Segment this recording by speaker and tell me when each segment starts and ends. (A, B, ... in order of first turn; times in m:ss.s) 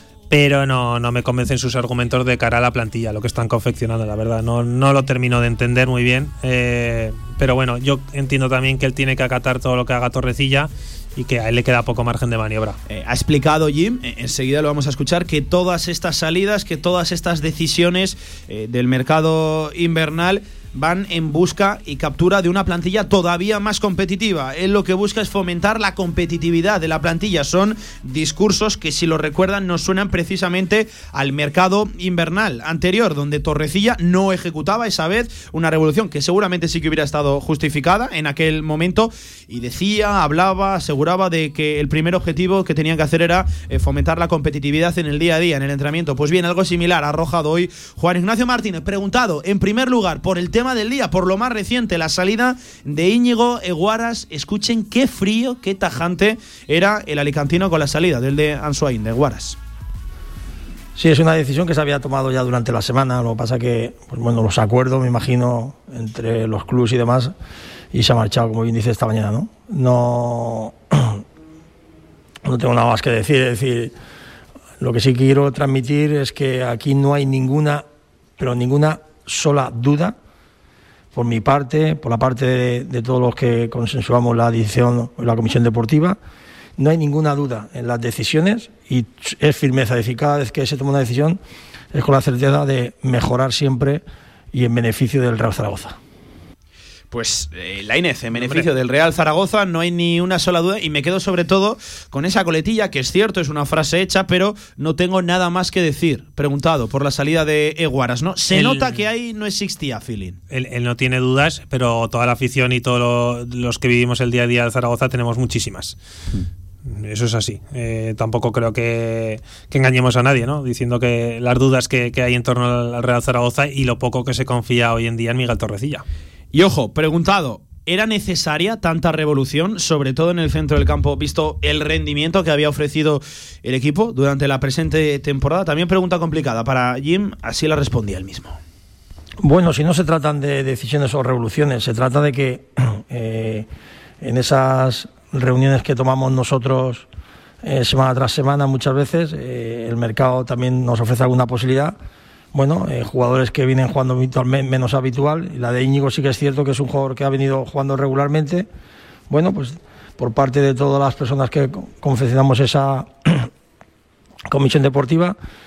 0:00.3-0:12.8 A
0:12.9-0:59.6 B
1:01.0-1:07.3 C
1:07.9-1:11.2 C
1:12.4-1:13.9 C
1:14.8-1:17.9 C
1:18.4-1:20.2 C
1:21.1-1:26.2 C
1:26.8-1:31.4 C
1:31.9-1:36.0 C
1:37.1-1:50.4 B
1:38.4-1:38.7 A
1:48.5-1:49.0 A
1:50.5-1:56.0 A
1:56.9-2:06.0 A
2:06.5-2:18.6 B
2:19.4-2:23.7 C
2:24.2-2:27.1 C
2:27.6-2:32.0 C
2:32.5-2:38.7 C
2:39.3-2:43.5 C
2:44.5-2:45.4 C